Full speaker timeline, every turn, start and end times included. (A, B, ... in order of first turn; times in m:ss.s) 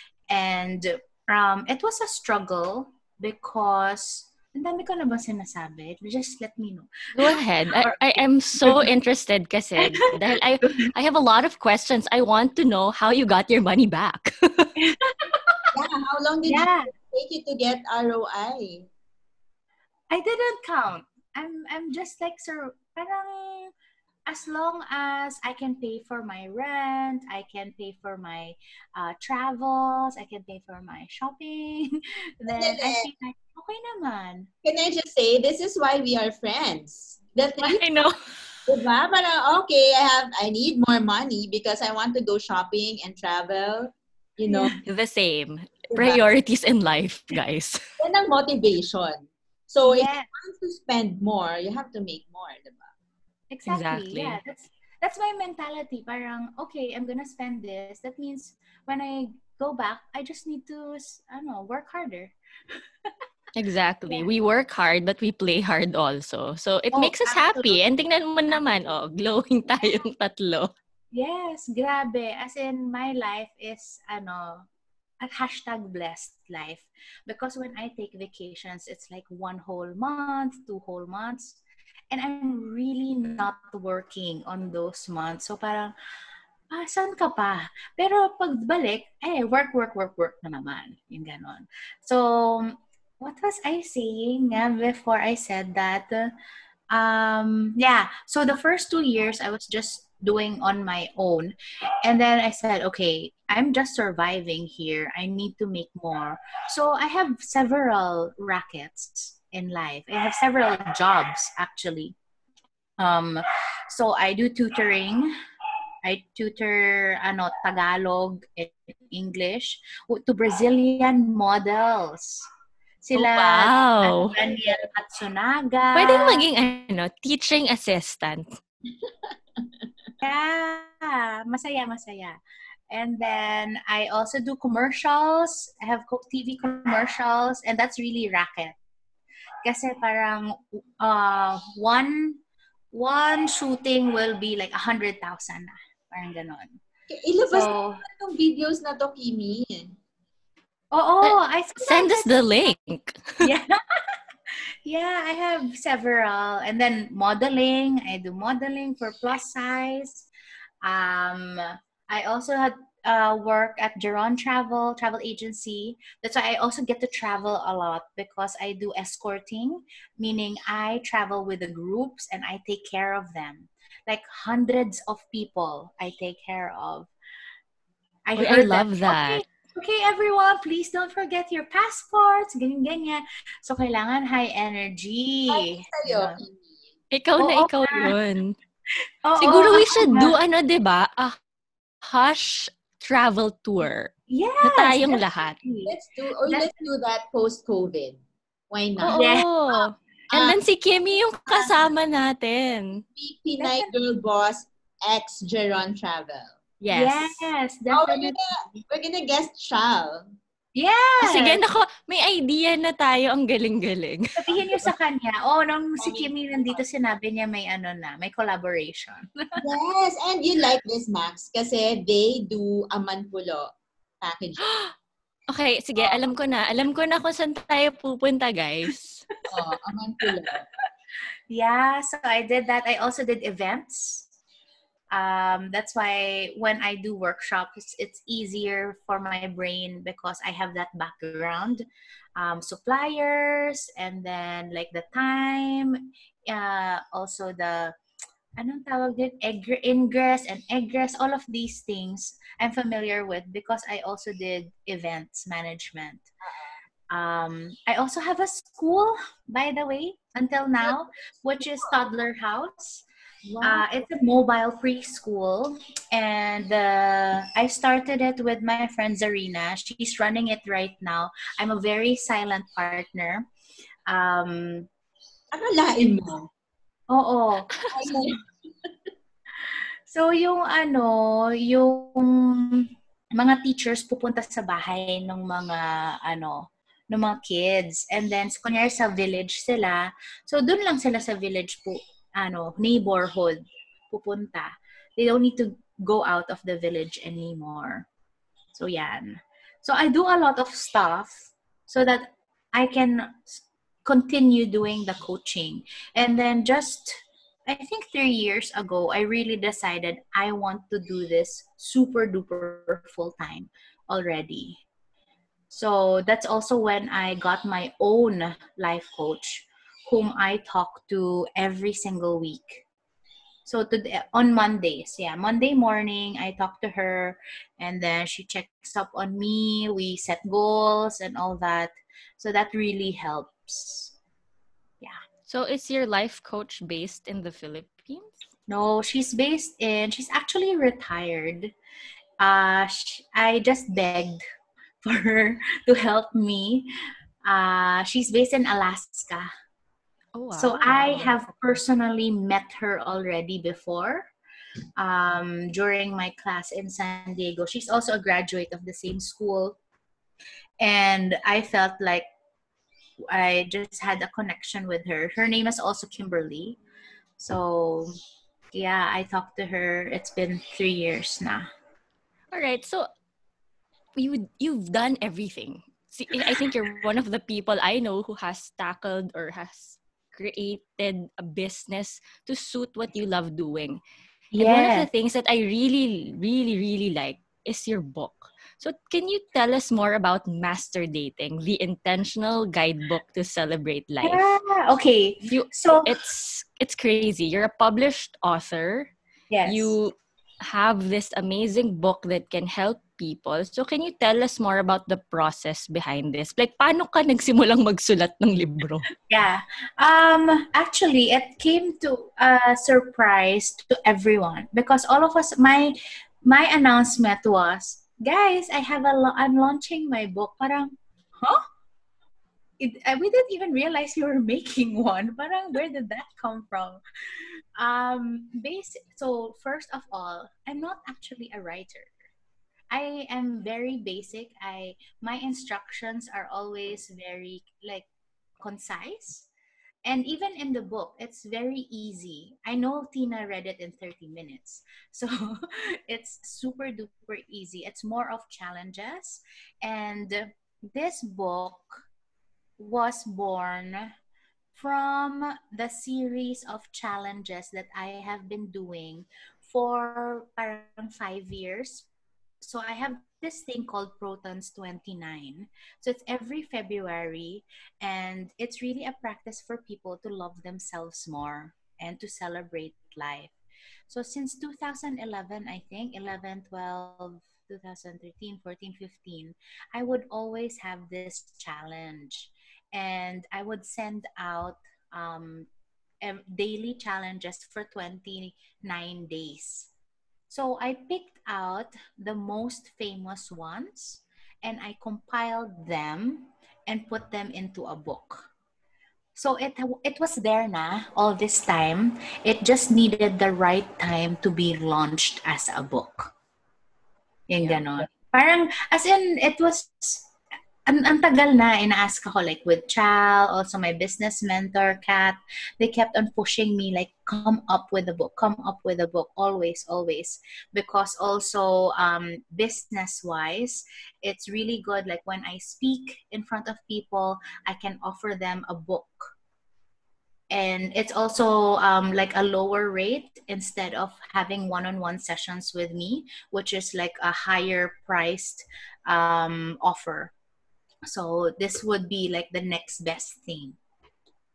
0:00.3-0:08.9 A
0:07.1-0:14.7 B
0:14.8-0:15.6 A
0:15.7-0:18.9 C
0:16.5-0:16.9 A
0:20.1-0:23.7 A
0:24.3-0:34.5 A
0:32.5-0:33.1 C
0:34.6-0:37.8 C
0:37.6-0:38.1 B
0:38.7-0:44.8 C
0:44.5-0:44.8 A
0:44.8-0:47.8 B
0:45.9-0:46.2 C
0:48.0-0:52.9 C
0:49.8-0:50.3 A
0:53.5-1:03.1 A
0:53.6-0:54.4 B
1:03.6-1:10.7 B
1:06.9-1:07.8 A
1:08.5-1:08.9 A
1:11.1-1:14.7 A
1:15.2-1:21.6 A
1:22.1-1:25.9 A
1:26.7-1:36.3 A
1:36.9-1:52.1 A
1:53.0-1:55.3 A
1:56.0-2:02.4 A
2:03.0-2:06.4 A
2:03.1-2:04.3 B
2:05.9-2:08.5 B
2:09.0-2:09.9 C
2:10.2-2:12.4 A
2:12.9-2:18.8 A
2:19.6-2:22.4 A
2:22.9-2:26.8 A
2:27.1-2:30.0 C
2:27.5-2:28.0 A
2:30.9-2:32.3 A
2:31.2-2:33.5 B
2:33.4-2:40.3 A
2:40.8-2:57.1 A
2:58.3-3:06.4 A
2:58.4-2:59.4 B
3:05.5-3:06.8 C
3:07.1-3:08.6 B
3:07.4-3:08.1 A
3:09.2-3:10.4 A
3:09.4-3:11.4 B
3:12.0-3:15.6 B
3:14.3-3:15.9 A
3:15.8-3:19.3 C
3:19.0-3:23.0 B
3:19.1-3:19.9 A
3:20.3-3:20.6 C
3:23.2-3:26.6 C
3:23.6-3:23.9 A
3:26.8-3:27.5 B
3:26.9-3:28.4 A
3:27.9-3:30.3 C
3:30.7-3:31.6 A
3:31.2-3:34.2 B
3:34.4-3:39.6 A
3:36.0-3:36.8 C
3:39.6-3:44.7 C
3:45.5-3:49.2 B
3:49.5-3:50.6 C
3:51.5-3:54.2 A
3:55.1-4:08.0 A
4:08.6-4:16.3 A
4:16.4-4:16.7 C
4:17.1-4:23.0 A
4:21.6-4:22.0 C
4:23.4-4:23.8 C
4:23.6-4:33.4 A
4:34.1-4:34.9 A
4:35.5-4:36.5 C
4:37.1-4:38.3 A
4:37.8-4:38.1 B
4:37.9-4:38.7 C
4:39.6-4:58.0 A
4:58.7-5:14.8 A
5:15.7-5:22.8 A
5:23.6-5:34.1 A
5:35.5-5:38.4 B
5:38.7-5:41.7 A
5:42.4-5:44.4 A
5:45.0-5:46.9 A
5:47.4-5:49.5 A
5:50.4-5:51.8 B
5:50.5-5:54.3 A
5:55.0-5:59.8 A
6:00.8-6:02.3 A
6:03.3-6:06.8 A
6:07.4-6:08.2 A
6:08.7-6:11.7 A
6:12.5-6:13.1 B
6:14.2-6:24.0 B
6:24.5-6:25.1 A
6:24.6-6:34.5 B
6:34.2-6:36.1 A
6:35.4-6:39.1 B
6:39.5-6:39.9 A
6:39.6-6:49.1 B
6:49.3-7:01.6 A
7:02.8-7:12.1 A
7:12.9-7:18.1 A
7:18.6-7:19.5 A
7:20.0-7:32.0 A
7:32.8-7:34.1 A
7:34.7-7:42.1 A
7:42.6-7:53.5 A
7:54.1-8:05.7 A
8:06.2-8:09.9 A
8:10.5-8:18.5 A
8:19.4-8:26.3 A
8:27.5-8:30.2 A
8:30.8-8:49.3 A
8:50.5-9:00.3 A
9:01.1-9:03.8 A